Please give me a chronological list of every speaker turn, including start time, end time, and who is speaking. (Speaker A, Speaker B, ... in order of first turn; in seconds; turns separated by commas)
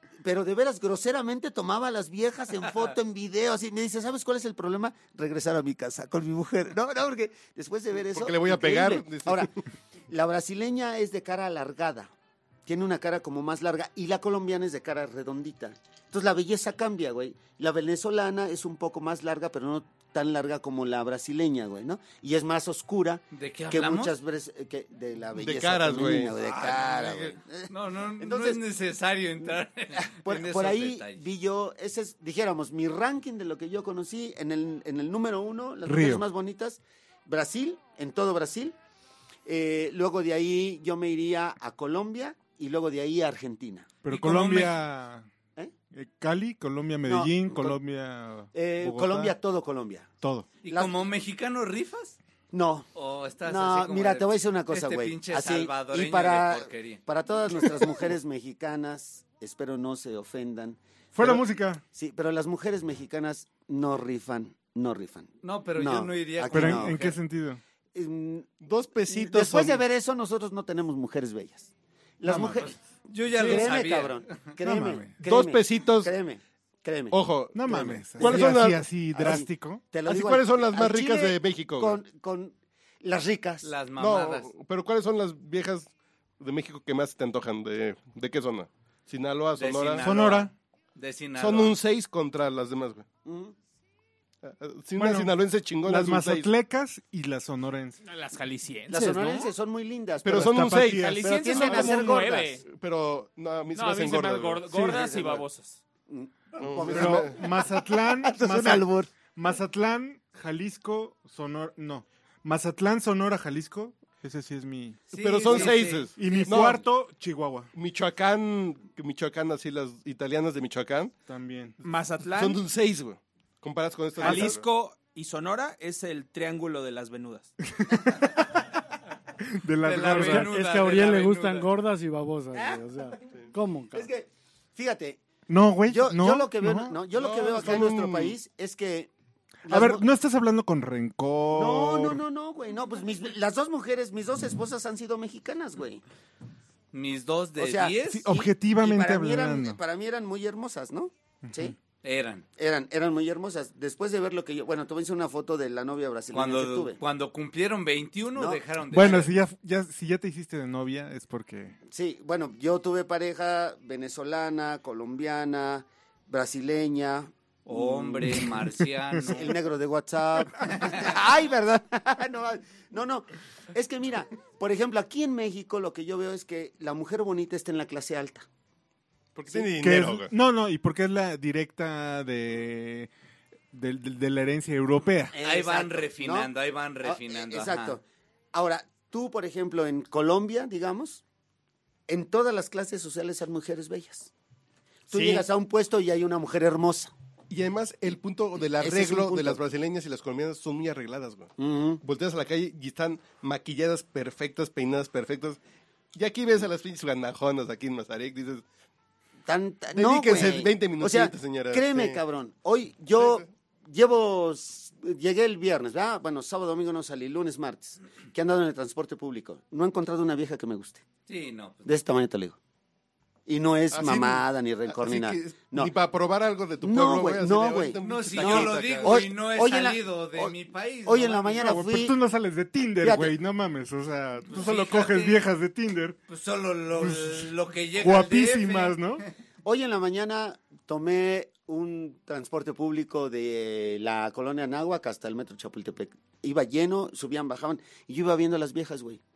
Speaker A: 0.2-9.5, Speaker B: 8.1-9.5, Speaker A: 10.1-12.1, Speaker A: 12.7-28.6, Speaker C: 23.3-24.1, Speaker B: 25.4-26.4, Speaker C: 26.4-31.2, Speaker A: 29.5-38.8, Speaker D: 35.9-36.2, Speaker A: 39.5-43.9, Speaker D: 44.0-45.3, Speaker C: 44.0-44.8, Speaker D: 45.9-49.4, Speaker A: 47.0-47.8, Speaker A: 48.5-50.1, Speaker D: 50.2-50.5, Speaker C: 50.6-52.2, Speaker A: 50.7-51.0, Speaker A: 52.5-52.9, Speaker C: 52.9-57.0, Speaker A: 53.4-67.0, Speaker D: 61.1-61.8, Speaker C: 65.4-67.2, Speaker D: 66.5-67.6, Speaker A: 67.9-68.5, Speaker B: 68.6-69.8, Speaker A: 69.1-71.7, Speaker A: 72.2-72.7, Speaker D: 72.3-72.6, Speaker C: 72.3-74.4, Speaker A: 73.3-83.7, Speaker D: 74.6-75.1, Speaker B: 75.2-76.1, Speaker B: 77.1-79.4, Speaker D: 77.5-79.8, Speaker B: 80.0-82.0, Speaker C: 83.6-84.5, Speaker B: 84.0-90.0, Speaker C: 89.6-91.8, Speaker D: 90.0-90.5, Speaker B: 91.4-93.0, Speaker A: 93.2-93.5, Speaker B: 94.4-96.5, Speaker D: 94.9-98.0, Speaker E: 98.0-99.5, Speaker A: 98.9-102.6, Speaker B: 100.2-101.9, Speaker D: 100.3-102.1, Speaker E: 100.9-102.6, Speaker B: 102.7-105.3, Speaker E: 103.7-105.8, Speaker A: 106.1-109.1, Speaker B: 106.6-107.4, Speaker D: 106.8-115.0, Speaker C: 115.1-116.7, Speaker B: 115.2-116.8, Speaker D: 116.2-117.7, Speaker B: 117.7-121.1, Speaker D: 121.3-121.8, Speaker E: 121.8-122.6, Speaker B: 122.2-124.7, Speaker E: 124.2-127.5, Speaker D: 127.8-128.6, Speaker D: 129.5-130.6, Speaker C: 129.8-131.7, Speaker F: 130.1-134.1, Speaker A: 132.5-132.8, Speaker A: 133.9-135.2, Speaker D: 135.5-137.0, Speaker A: 135.8-139.1, Speaker B: 137.1-138.3, Speaker A: 139.6-140.1, Speaker D: 139.7-142.2, Speaker A: 141.5-146.0, Speaker C: 146.9-148.3, Speaker A: 147.6-151.8, Speaker D: 148.0-149.8, Speaker C: 152.0-152.4, Speaker A: 152.6-157.0, Speaker C: 156.3-159.3, Speaker A: 158.3-158.6, Speaker D: 158.9-161.8, Speaker A: 161.9-168.5, Speaker C: 167.7-169.6, Speaker A: 169.2-178.5, Speaker B: 179.3-180.3, Speaker D: 179.8-183.1, Speaker D: 183.7-185.3, Speaker A: 185.3-186.5, Speaker C: 185.4-188.0, Speaker A: 187.0-191.2, Speaker A: 192.1-194.3, Speaker A: 195.1-197.1, Speaker B: 197.5-205.6, Speaker A: 198.8-199.6, Speaker A: 201.6-202.0, Speaker B: 206.1-208.6, Speaker A: 209.5-221.0, Speaker B: 209.9-212.2, Speaker B: 213.2-213.4, Speaker C: 221.3-221.9, Speaker A: 221.8-222.6, Speaker A: 223.5-225.9, Speaker B: 223.9-229.2, Speaker A: 226.8-230.5, Speaker C: 228.0-231.7, Speaker A: 231.0-232.2, Speaker D: 231.6-236.2, Speaker A: 233.0-233.3, Speaker C: 234.5-235.4, Speaker C: 236.3-239.2, Speaker D: 237.0-237.4, Speaker D: 237.9-239.2, Speaker A: 239.6-249.2